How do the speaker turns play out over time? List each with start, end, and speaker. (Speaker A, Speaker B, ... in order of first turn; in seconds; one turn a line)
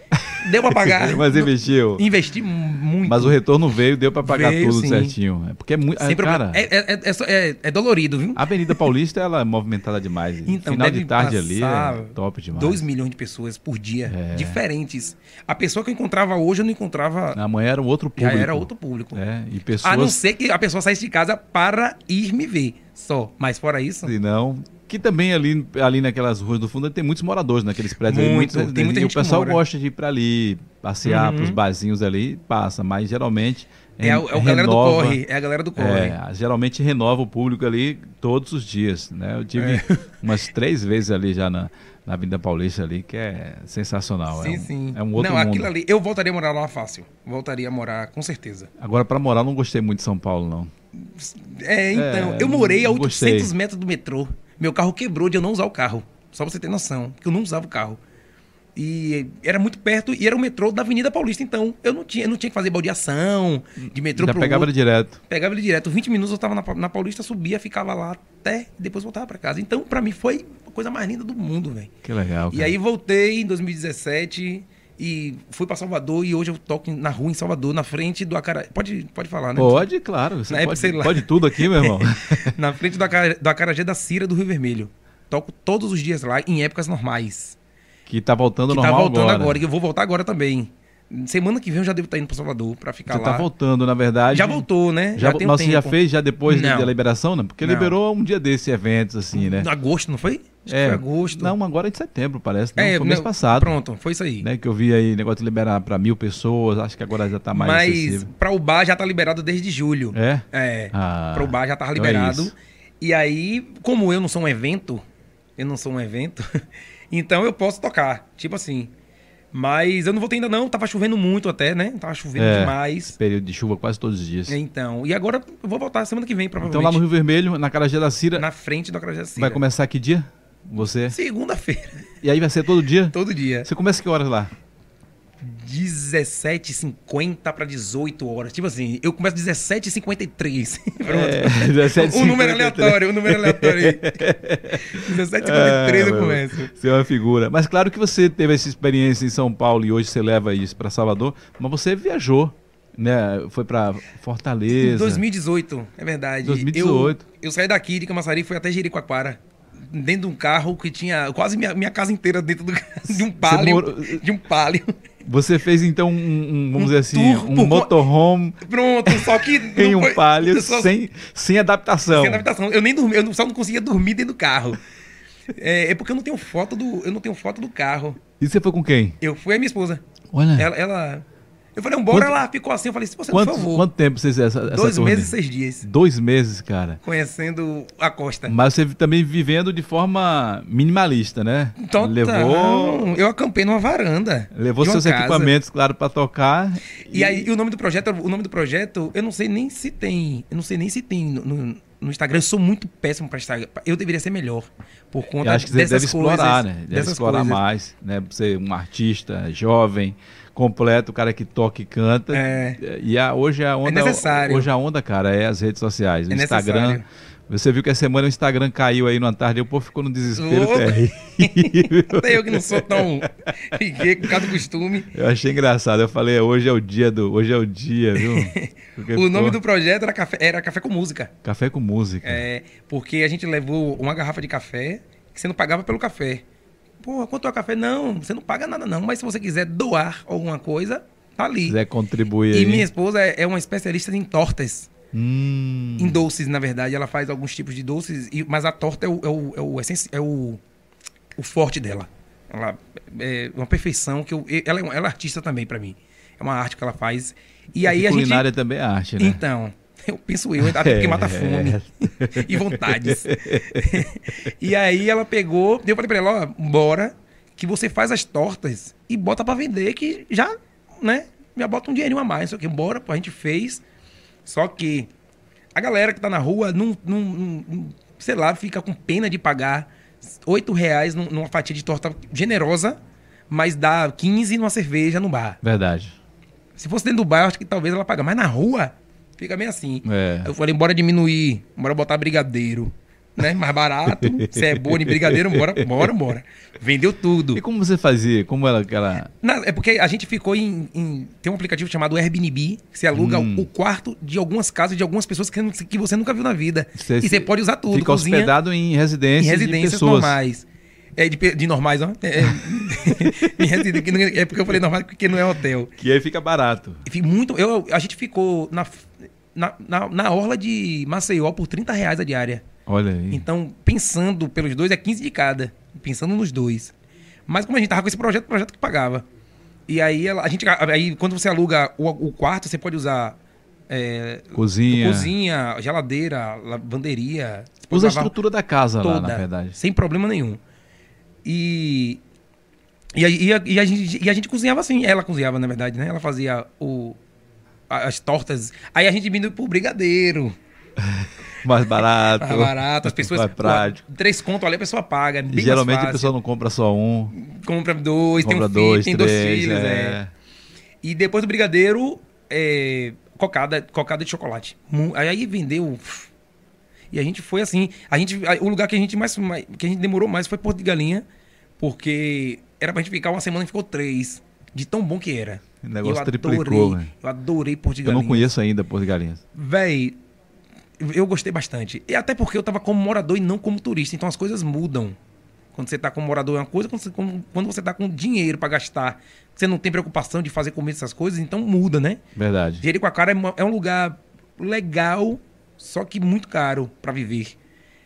Speaker A: 0.2-2.1
Speaker B: 0.4-3.4
Speaker A: 3.0-6.7
Speaker B: 4.2-5.2
Speaker B: 6.0-8.9
Speaker A: 8.4-12.8
Speaker B: 10.4-17.4
Speaker A: 14.1-14.6
Speaker A: 17.4-20.2
Speaker B: 18.1-19.2
Speaker B: 19.8-24.1
Speaker A: 24.0-35.2
Speaker B: 28.0-29.6
Speaker B: 31.0-31.6
Speaker B: 34.0-36.2
Speaker A: 35.8-45.7
Speaker B: 39.6-40.0
Speaker B: 44.3-48.7
Speaker A: 48.8-50.7
Speaker B: 50.9-58.0
Speaker A: 51.9-53.5
Speaker B: 58.8-64.7
Speaker A: 64.1-65.2
Speaker B: 65.3-71.9
Speaker A: 72.0-72.8
Speaker B: 72.5-79.9
Speaker A: 79.6-82.6
Speaker B: 80.5-87.6
Speaker A: 88.1-89.6
Speaker B: 88.7-93.5
Speaker A: 93.1-99.7
Speaker B: 94.3-96.9
Speaker B: 97.6-97.9
Speaker B: 99.3-101.5
Speaker A: 100.7-103.8
Speaker B: 102.8-104.5
Speaker A: 104.4-108.3
Speaker B: 107.5-115.0
Speaker A: 110.1-112.5
Speaker B: 115.6-118.9
Speaker B: 119.5-123.2
Speaker A: 122.4-124.6
Speaker B: 124.5-127.0
Speaker A: 126.6-128.4
Speaker B: 128.3-129.6
Speaker A: 129.4-131.2
Speaker B: 131.1-132.1
Speaker A: 132.2-134.5
Speaker B: 133.1-133.7
Speaker B: 135.4-146.7
Speaker A: 141.1-155.2
Speaker B: 154.7-164.9
Speaker A: 156.4-157.2
Speaker A: 163.1-164.2
Speaker A: 165.2-172.4
Speaker B: 166.8-168.0
Speaker B: 168.6-170.9
Speaker B: 172.1-174.8
Speaker B: 175.5-178.2
Speaker A: 178.4-179.2
Speaker B: 179.2-180.0
Speaker A: 180.3-180.7
Speaker B: 180.6-183.9
Speaker A: 182.1-182.4
Speaker A: 183.3-187.0
Speaker B: 184.7-185.9
Speaker B: 187.0-188.6
Speaker A: 188.5-193.2
Speaker B: 191.8-195.6
Speaker A: 194.5-197.5
Speaker B: 197.1-207.6
Speaker A: 205.4-223.3
Speaker B: 212.3-212.8
Speaker B: 213.8-214.7
Speaker B: 216.3-217.1
Speaker B: 220.3-225.1
Speaker A: 224.2-224.5
Speaker A: 225.1-229.6
Speaker B: 228.2-231.3
Speaker A: 231.4-232.4
Speaker B: 232.2-236.4
Speaker B: 237.0-241.8
Speaker A: 241.7-242.9
Speaker B: 242.5-244.9
Speaker A: 245.1-246.2
Speaker B: 246.0-250.6
Speaker B: 251.4-258.4
Speaker A: 257.8-259.4
Speaker B: 259.2-273.8
Speaker A: 260.6-264.1
Speaker B: 274.4-275.1
Speaker B: 275.8-285.6
Speaker A: 285.6-286.2
Speaker B: 286.8-297.6
Speaker A: 290.0-290.5
Speaker A: 294.1-296.1
Speaker A: 297.5-299.3
Speaker B: 299.4-308.5
Speaker A: 303.1-303.7
Speaker A: 306.9-310.4
Speaker B: 309.4-315.9
Speaker A: 313.2-314.0
Speaker A: 316.0-317.0
Speaker B: 317.1-322.6
Speaker A: 322.9-323.4
Speaker B: 323.3-326.9
Speaker B: 327.5-329.3
Speaker B: 329.9-333.4
Speaker B: 333.9-338.4
Speaker A: 334.5-335.3
Speaker A: 337.9-339.8
Speaker B: 339.0-340.6
Speaker B: 341.4-342.2
Speaker B: 343.1-347.2
Speaker B: 347.9-350.5
Speaker A: 351.0-354.0
Speaker B: 352.0-356.3
Speaker A: 355.5-357.3
Speaker B: 357.3-360.2
Speaker A: 358.4-360.3
Speaker B: 361.0-366.3
Speaker B: 367.1-371.2
Speaker B: 371.8-378.5
Speaker A: 375.8-377.1
Speaker A: 378.1-379.4
Speaker B: 379.5-380.2
Speaker B: 381.0-385.2
Speaker B: 385.7-392.2
Speaker A: 392.4-392.8
Speaker B: 392.8-397.6